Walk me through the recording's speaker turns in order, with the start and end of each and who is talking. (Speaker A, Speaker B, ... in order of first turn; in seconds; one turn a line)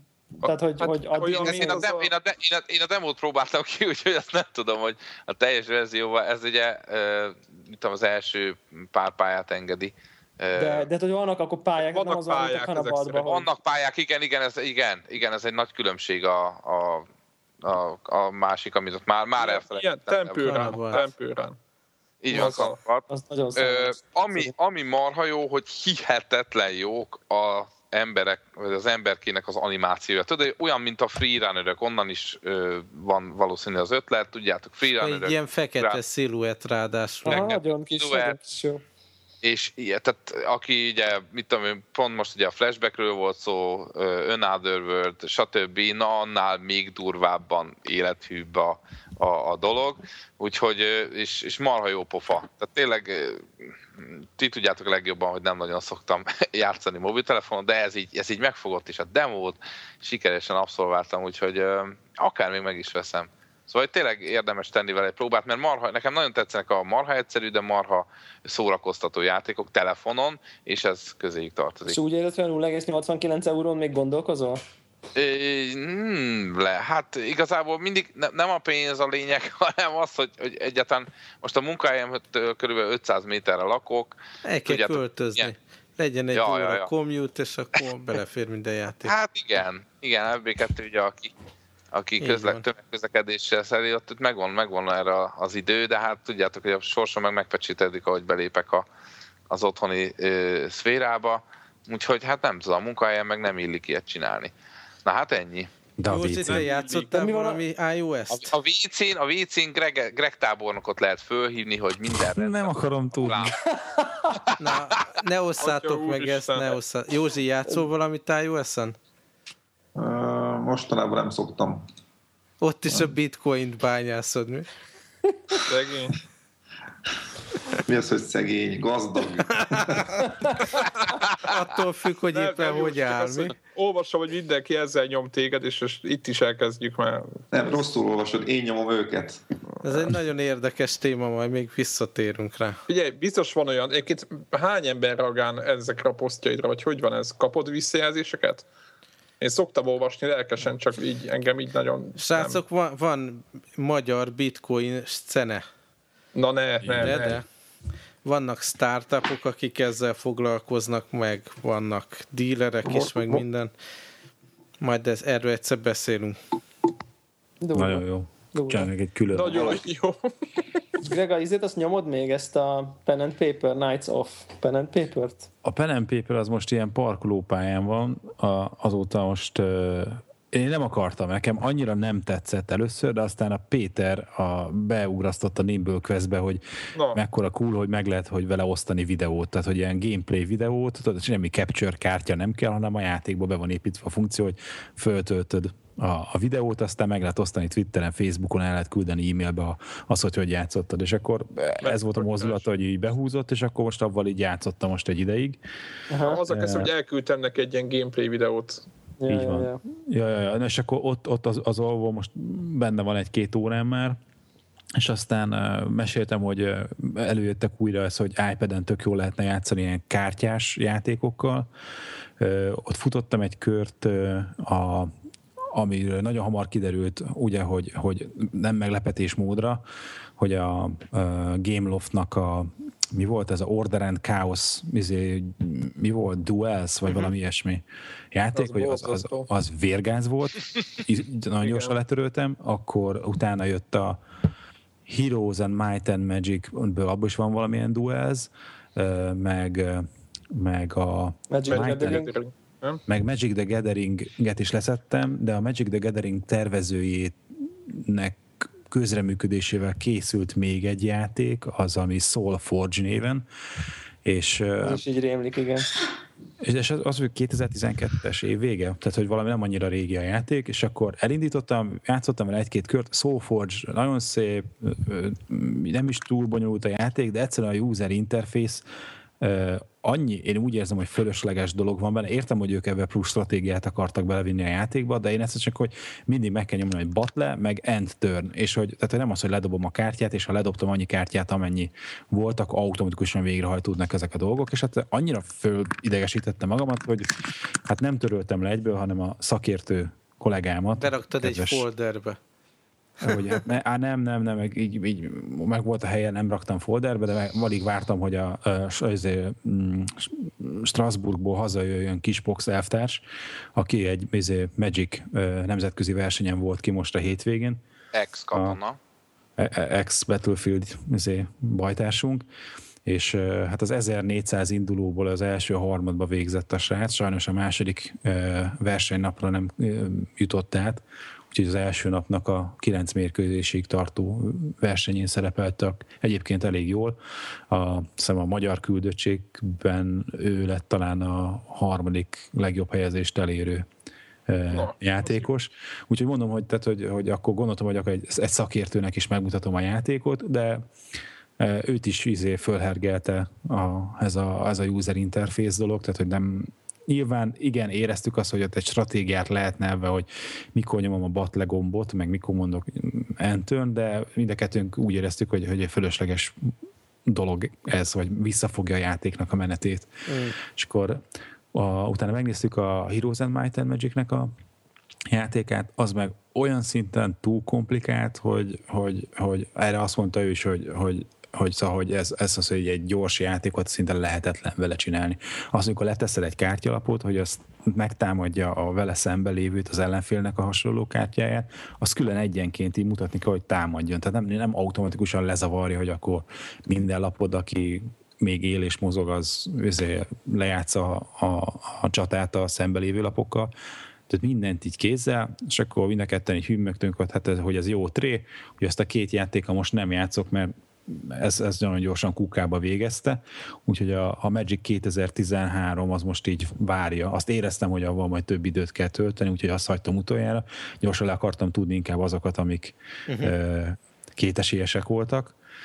Speaker A: 0.4-1.9
Speaker B: 0.4-2.1
Speaker C: 1.2-10.9
Speaker A: 10.6-13.5
Speaker B: 11.8-13.5
Speaker C: 13.3-17.1
Speaker C: 17.6-21.0
Speaker B: 19.4-21.6
Speaker D: 20.5-21.0
Speaker C: 22.2-36.0
Speaker B: 22.3-22.8
Speaker A: 23.1-24.5
Speaker D: 35.0-37.5
Speaker C: 37.2-38.4
Speaker A: 37.3-38.8
Speaker C: 39.4-72.0
Speaker A: 71.8-74.6
Speaker C: 75.2-85.5
Speaker D: 84.5-89.1
Speaker C: 86.3-86.9
Speaker C: 89.0-91.3
Speaker C: 91.9-98.9
Speaker D: 92.2-92.7
Speaker C: 99.5-104.5
Speaker C: 105.0-105.7
Speaker E: 106.0-106.7
Speaker D: 106.1-108.5
Speaker B: 106.5-107.0
Speaker A: 107.1-107.6
Speaker C: 108.3-113.6
Speaker E: 112.3-113.5
Speaker A: 113.8-114.3
Speaker D: 114.6-119.0
Speaker B: 115.6-116.8
Speaker F: 120.0-121.8
Speaker D: 122.6-124.7
Speaker B: 125.7-126.2
Speaker F: 127.8-130.2
Speaker D: 131.4-133.5
Speaker B: 132.3-137.6
Speaker F: 137.5-139.4
Speaker D: 139.8-142.8
Speaker B: 142.9-148.7
Speaker B: 149.4-152.6
Speaker D: 152.2-155.7
Speaker B: 156.3-157.4
Speaker E: 156.8-157.3
Speaker D: 157.0-157.4
Speaker D: 158.2-163.7
Speaker A: 162.8-163.4
Speaker D: 164.8-166.4
Speaker A: 167.6-168.9
Speaker E: 167.7-169.8
Speaker B: 169.3-170.3
Speaker A: 171.0-175.5
Speaker E: 175.6-205.6
Speaker B: 186.9-187.2
Speaker B: 201.8-202.7
Speaker A: 206.1-206.4
Speaker B: 206.2-208.8
Speaker E: 206.5-206.9
Speaker A: 209.2-209.8
Speaker E: 209.3-214.2
Speaker E: 215.0-221.7
Speaker E: 222.4-225.1
Speaker E: 225.7-229.8
Speaker E: 230.4-244.2
Speaker B: 238.5-239.5
Speaker B: 241.6-241.9
Speaker E: 245.1-252.3
Speaker A: 251.5-252.3
Speaker B: 251.7-253.0
Speaker E: 253.1-263.4
Speaker E: 264.2-265.0
Speaker A: 264.8-265.9
Speaker E: 266.6-278.9
Speaker E: 279.4-301.9
Speaker D: 301.0-302.4
Speaker E: 303.2-313.2
Speaker E: 313.8-317.8
Speaker C: 318.1-319.0
Speaker E: 318.5-318.8
Speaker E: 319.6-322.4
Speaker E: 323.1-337.2
Speaker E: 337.7-343.9
Speaker E: 344.5-350.9
Speaker B: 344.7-345.5
Speaker E: 351.6-366.7
Speaker E: 367.3-374.5
Speaker D: 370.3-370.6
Speaker E: 375.3-403.7
Speaker E: 404.3-425.6
Speaker D: 423.3-423.6